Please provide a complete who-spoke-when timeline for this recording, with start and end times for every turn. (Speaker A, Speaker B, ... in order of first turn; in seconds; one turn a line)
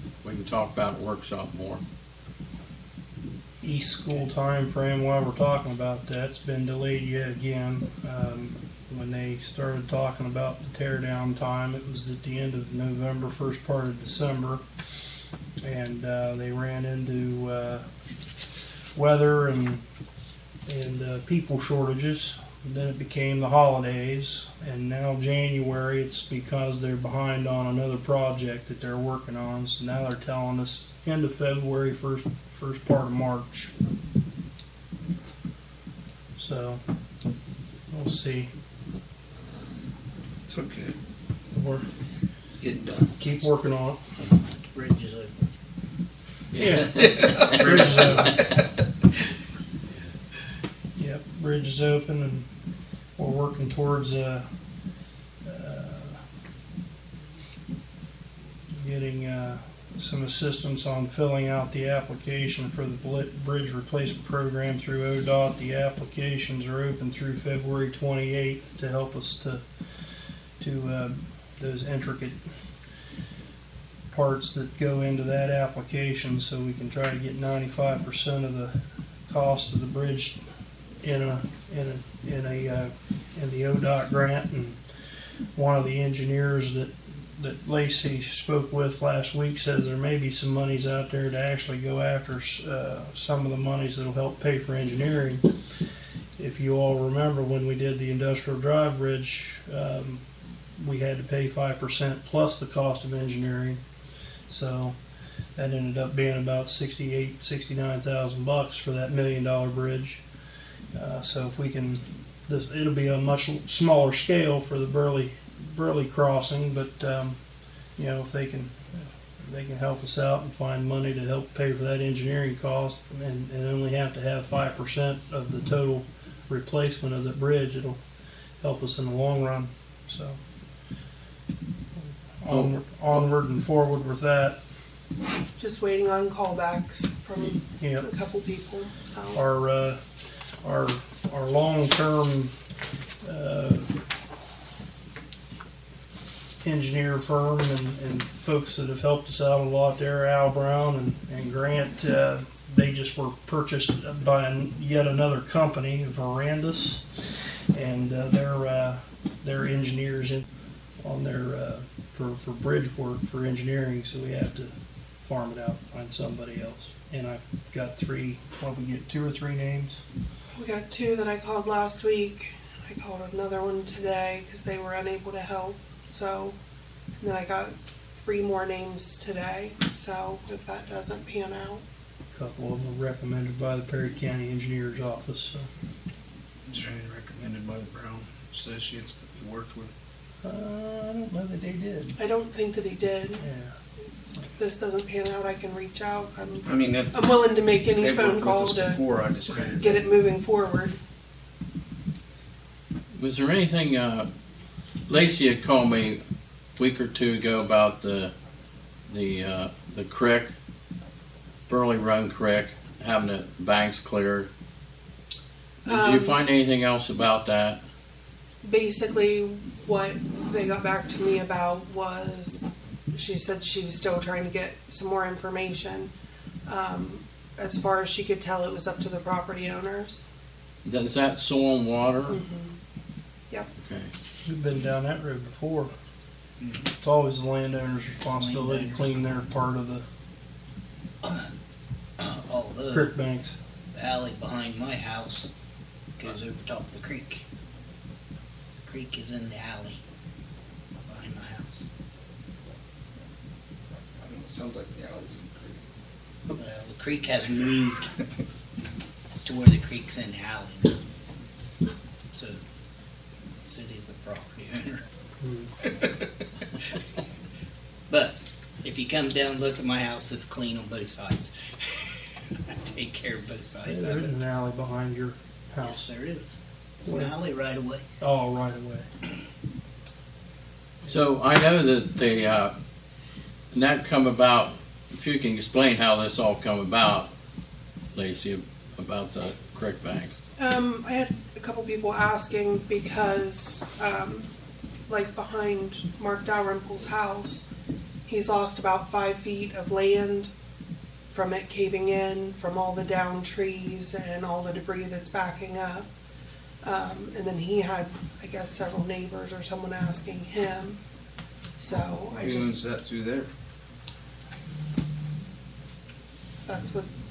Speaker A: 0.2-1.8
Speaker B: 3.6-14.6
Speaker B: 15.6-17.8
Speaker B: 18.9-19.8
Speaker B: 20.7-33.7
Speaker B: 36.4-36.8
Speaker B: 37.9-38.5
Speaker C: 40.5-40.9
Speaker B: 41.5-41.9
Speaker C: 42.5-43.1
Speaker B: 43.2-44.0
Speaker D: 44.7-45.5
Speaker B: 46.5-48.5
Speaker A: 46.6-47.4
Speaker C: 47.0-48.4
Speaker B: 51.0-52.5
Speaker B: 53.2-54.5
Speaker B: 55.5-56.2
Speaker B: 58.8-69.6
Speaker B: 70.6-72.4
Speaker B: 74.1-78.8
Speaker B: 79.3-80.4
Speaker B: 81.0-84.8
Speaker B: 85.6-95.4
Speaker B: 96.4-100.2
Speaker B: 100.8-103.8
Speaker B: 104.5-105.0
Speaker B: 105.6-110.2
Speaker B: 110.9-117.4
Speaker B: 118.0-128.0
Speaker B: 128.6-130.4
Speaker B: 132.0-134.6
Speaker E: 135.6-139.5
Speaker B: 137.8-138.1
Speaker B: 139.3-140.0
Speaker B: 140.6-142.5
Speaker B: 143.2-143.9
Speaker B: 146.6-157.1
Speaker B: 157.7-160.4
Speaker B: 161.0-164.7
Speaker B: 165.2-170.0
Speaker E: 170.6-176.6
Speaker E: 177.2-181.8
Speaker B: 182.3-185.7
Speaker C: 186.7-189.9
Speaker B: 190.4-192.2
Speaker E: 192.2-193.5
Speaker B: 193.4-193.7
Speaker E: 194.6-201.0
Speaker C: 196.7-197.1
Speaker C: 198.0-200.1
Speaker A: 203.2-204.3
Speaker A: 205.1-206.2
Speaker A: 206.8-208.3
Speaker A: 209.1-210.5
Speaker A: 211.7-214.5
Speaker E: 215.8-216.4
Speaker A: 215.9-217.8
Speaker E: 218.6-226.1
Speaker E: 226.7-230.2
Speaker A: 230.8-232.4
Speaker E: 232.3-232.8
Speaker A: 233.8-234.1
Speaker B: 234.5-235.9
Speaker D: 236.6-236.9
Speaker B: 237.0-240.0
Speaker D: 238.2-239.4
Speaker D: 241.2-241.5
Speaker D: 242.2-243.1
Speaker B: 242.9-243.5
Speaker D: 243.9-245.5
Speaker D: 246.2-247.4
Speaker D: 248.8-250.0
Speaker D: 251.1-251.9
Speaker C: 254.2-255.8
Speaker D: 256.5-258.1
Speaker D: 259.4-261.0
Speaker D: 262.3-262.6
Speaker D: 263.6-265.0
Speaker B: 265.4-265.7
Speaker D: 268.1-271.9
Speaker D: 272.7-274.4
Speaker B: 273.9-276.1
Speaker D: 275.8-276.5
Speaker D: 277.0-278.0
Speaker B: 277.1-277.3
Speaker B: 278.2-279.1
Speaker A: 281.1-282.7
Speaker A: 283.7-287.3
Speaker A: 288.1-290.3
Speaker E: 290.6-294.5
Speaker E: 295.1-297.6
Speaker E: 298.3-300.5
Speaker E: 301.3-306.1
Speaker E: 306.8-311.0
Speaker E: 311.8-312.8
Speaker C: 312.4-313.5
Speaker E: 316.7-317.1